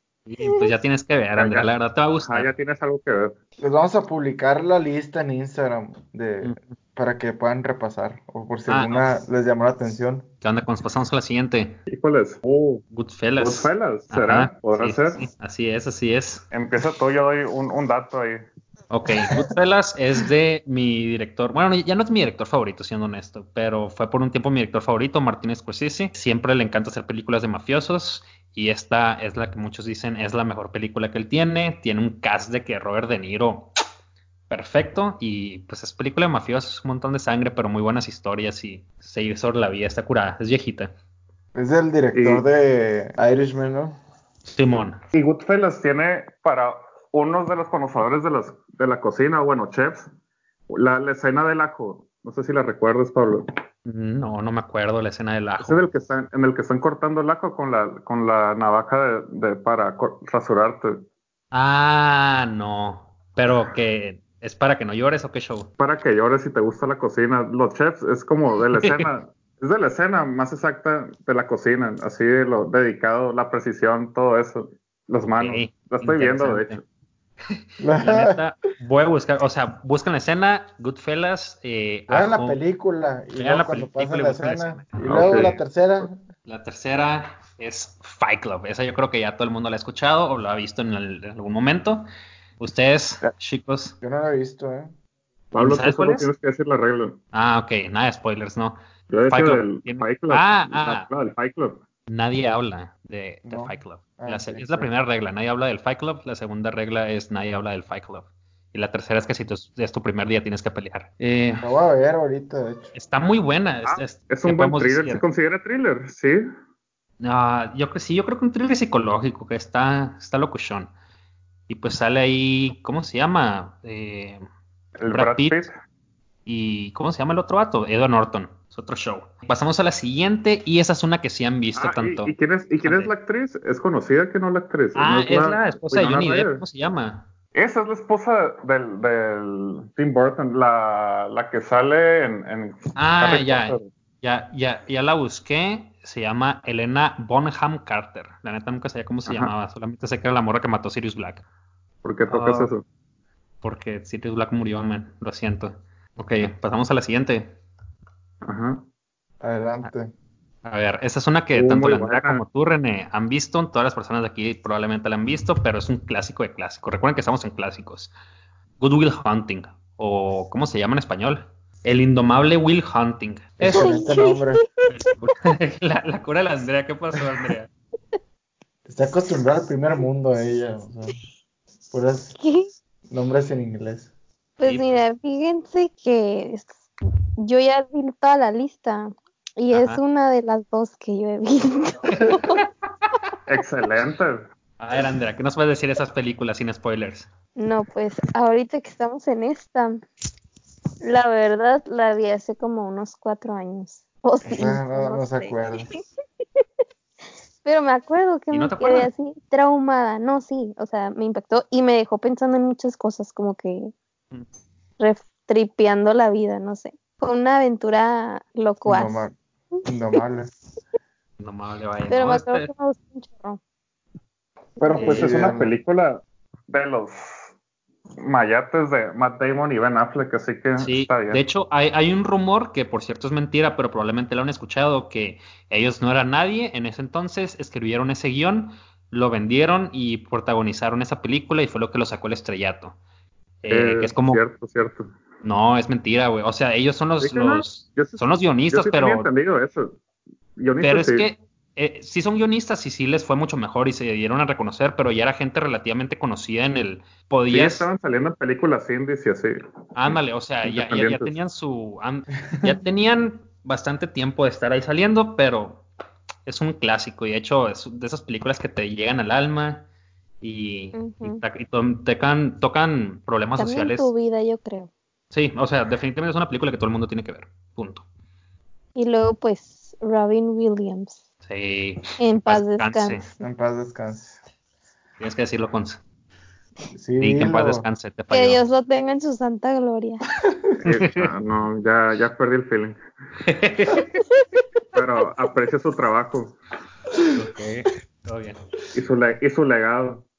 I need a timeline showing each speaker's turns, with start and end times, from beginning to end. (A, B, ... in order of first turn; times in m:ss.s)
0:00.3-0:02.5 A
0:01.4-0:03.4 B
0:03.6-0:10.2 C
0:06.4-0:06.7 A
0:08.7-0:09.0 A
0:10.4-0:11.8 A
0:11.9-0:12.8 B
0:12.9-0:16.4 A
0:13.4-0:15.2 B
0:16.5-0:18.4 B
0:18.9-0:33.7 A
0:34.5-0:40.9 A
0:41.5-0:44.0 C
0:42.1-0:42.4 B
0:44.4-0:45.0 A
0:45.1-0:50.1 B
0:50.7-0:53.4 B
0:53.8-0:55.8 A
0:55.6-1:01.0 B
1:01.5-1:05.7 A
1:05.8-1:16.8 B
1:08.8-1:09.1 A
1:15.4-1:16.8 A
1:17.8-1:18.4 C
1:18.0-1:22.6 A
1:22.1-1:26.2 C
1:23.4-1:25.6 A
1:25.0-1:26.0 B
1:26.4-1:32.0 A
1:32.6-1:34.0 A
1:34.0-1:34.9 C
1:35.5-1:37.2 B
1:35.6-1:36.3 A
1:37.3-1:41.1 A
1:39.1-1:41.8 B
1:42.1-1:51.7 A
1:43.5-1:44.9 C
1:51.6-1:52.9 C
1:52.9-1:55.2 A
1:53.8-1:56.4 B
1:57.2-2:00.9 A
2:01.7-2:04.4 A
2:05.0-2:05.7 B
2:05.1-2:05.7 A
2:06.4-2:13.1 A
2:11.8-2:16.6 B
2:15.0-2:17.3 A
2:17.5-2:23.9 B
2:23.0-2:31.4 A
2:29.2-2:29.5 B
2:32.0-2:32.8 B
2:32.3-2:32.7 A
2:33.6-2:37.5 A
2:38.4-2:38.8 B
2:39.4-2:40.1 C
2:40.6-2:48.1 A
2:41.5-2:42.4 B
2:48.8-2:54.0 A
2:53.6-2:54.6 C
2:53.6-2:54.6 D
2:54.9-2:57.7 A
2:58.9-3:01.1 C
3:01.9-3:02.4 C
3:02.4-3:02.7 D
3:03.1-3:04.1 C
3:04.6-3:06.8 D
3:04.6-3:05.0 A
3:07.4-3:12.6 D
3:09.7-3:10.0 A
3:12.2-3:12.5 A
3:13.4-3:14.4 B
3:14.8-3:17.3 A
3:17.6-3:20.0 D
3:21.0-3:26.0 D
3:24.4-3:25.9 C
3:27.6-3:33.9 D
3:28.5-3:29.1 A
3:35.0-3:39.2 D
3:38.8-3:39.3 C
3:39.8-3:40.5 C
3:41.4-3:42.7 A
3:42.1-3:43.6 D
3:44.8-3:47.5 B
3:44.9-3:45.4 A
3:44.9-3:45.7 C
3:48.2-3:51.4 B
3:50.8-4:03.0 A
4:03.6-4:04.4 A
4:03.7-4:05.1 B
4:05.4-4:09.3 A
4:07.2-4:10.0 B
4:10.6-4:11.3 B
4:10.8-4:17.9 A
4:17.5-4:21.3 B
4:19.9-4:25.8 A
4:26.4-4:29.8 A
4:30.4-4:34.1 A
4:30.9-4:31.4 D
4:33.6-4:34.9 D
4:35.3-4:38.0 A
4:38.9-4:41.2 D
4:41.4-4:43.2 A
4:42.2-4:43.2 D
4:43.4-4:44.4 C
4:45.2-4:46.0 A
4:46.9-4:47.8 C
4:47.2-4:48.6 A
4:48.3-4:50.2 D
4:50.8-4:53.0 B
4:50.9-4:51.3 A
4:53.4-4:54.1 A
4:54.9-4:56.6 B
4:57.3-4:58.6 A
4:58.9-5:00.2 B